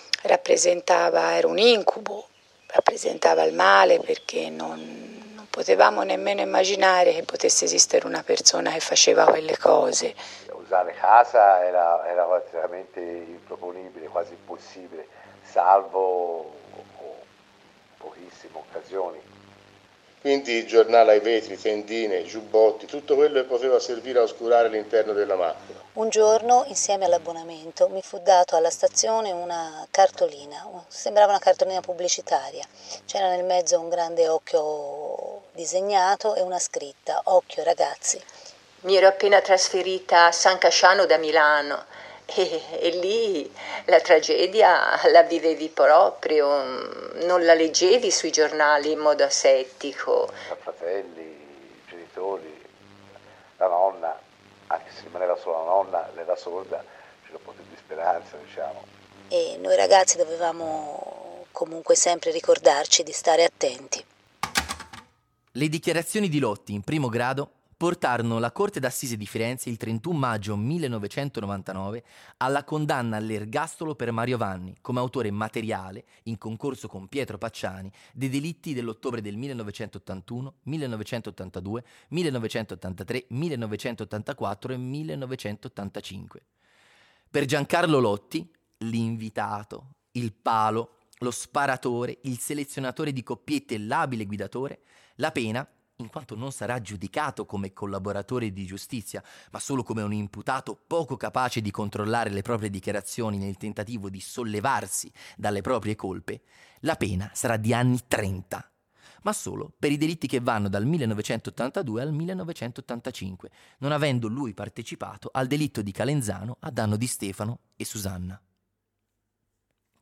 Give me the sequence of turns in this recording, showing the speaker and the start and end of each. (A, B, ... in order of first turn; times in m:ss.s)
0:00.2-0:10.2 A
0:10.5-0:17.2 B
0:18.0-0:19.2 B
0:20.2-0:25.7 C
0:25.9-0:38.2 D
0:38.8-0:50.4 E
0:50.5-0:52.7 B
0:53.6-0:58.9 B
0:59.3-1:04.0 D
1:05.5-1:26.4 F
1:27.3-1:48.7 F
1:49.2-1:58.4 F